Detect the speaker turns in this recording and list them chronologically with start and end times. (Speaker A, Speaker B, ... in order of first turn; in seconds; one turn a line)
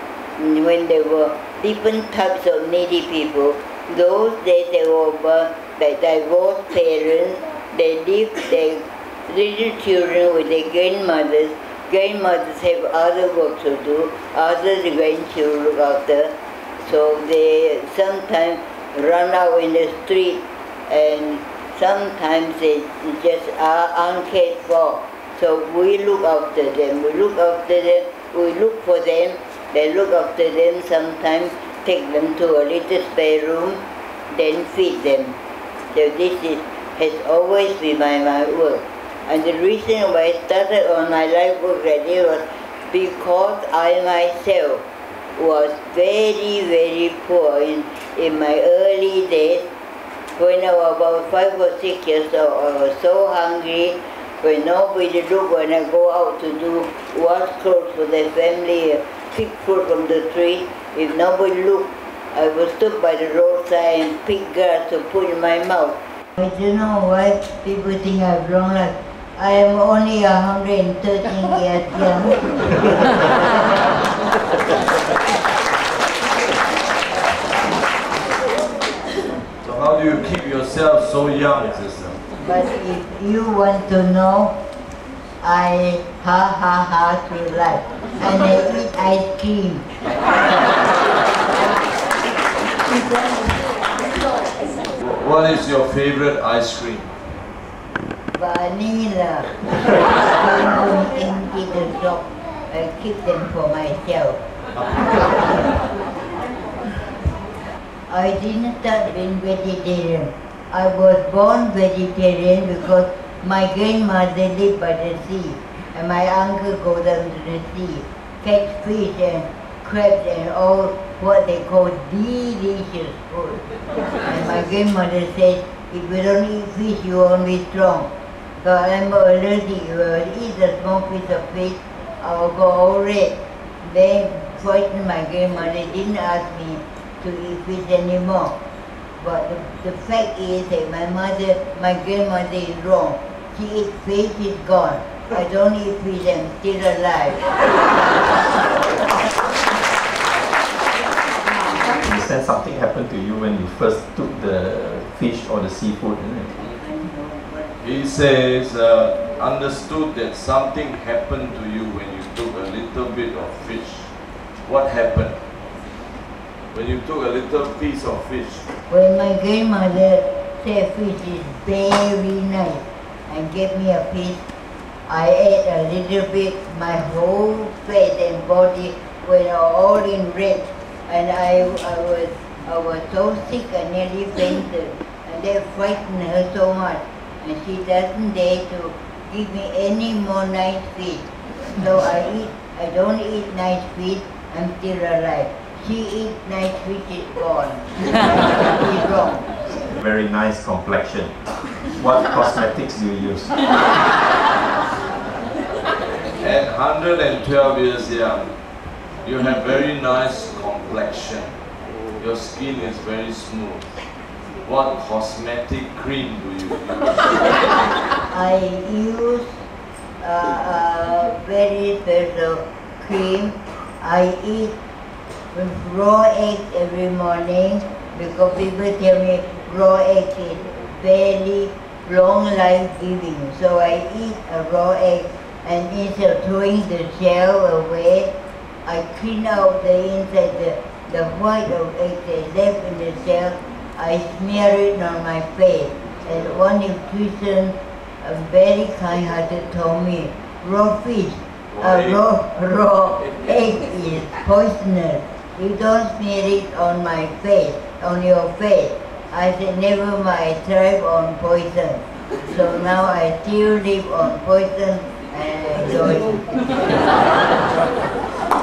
Speaker A: 0.4-33.8
Speaker A: 34.3-35.4
Speaker A: 35.9-44.8
Speaker A: 45.4-49.7
Speaker A: 50.4-73.8
Speaker B: 79.6-82.2
Speaker A: 82.4-84.5
Speaker A: 85.4-89.8
Speaker B: 95.0-97.1
Speaker A: 98.3-99.5
Speaker A: 100.3-104.4
Speaker A: 108.1-123.6
Speaker A: 124.2-128.1
Speaker A: 128.6-138.5
Speaker A: 139.2-147.4
Speaker C: 151.9-156.5
Speaker A: 156.6-157.8
Speaker B: 157.8-164.1
Speaker B: 164.6-165.4
Speaker B: 166.7-168.6
Speaker A: 168.9-174.4
Speaker A: 175.1-199.4
Speaker C: 199.9-201.3
Speaker C: 201.9-203.5
Speaker B: 206.4-208.5
Speaker B: 209.2-211.5
Speaker B: 212.2-213.8
Speaker B: 214.6-217.3
Speaker A: 218.3-219.6
Speaker A: 220.2-224.7
Speaker A: 225.5-238.3
Speaker A: 238.8-266.8
Speaker B: 251.7-252.2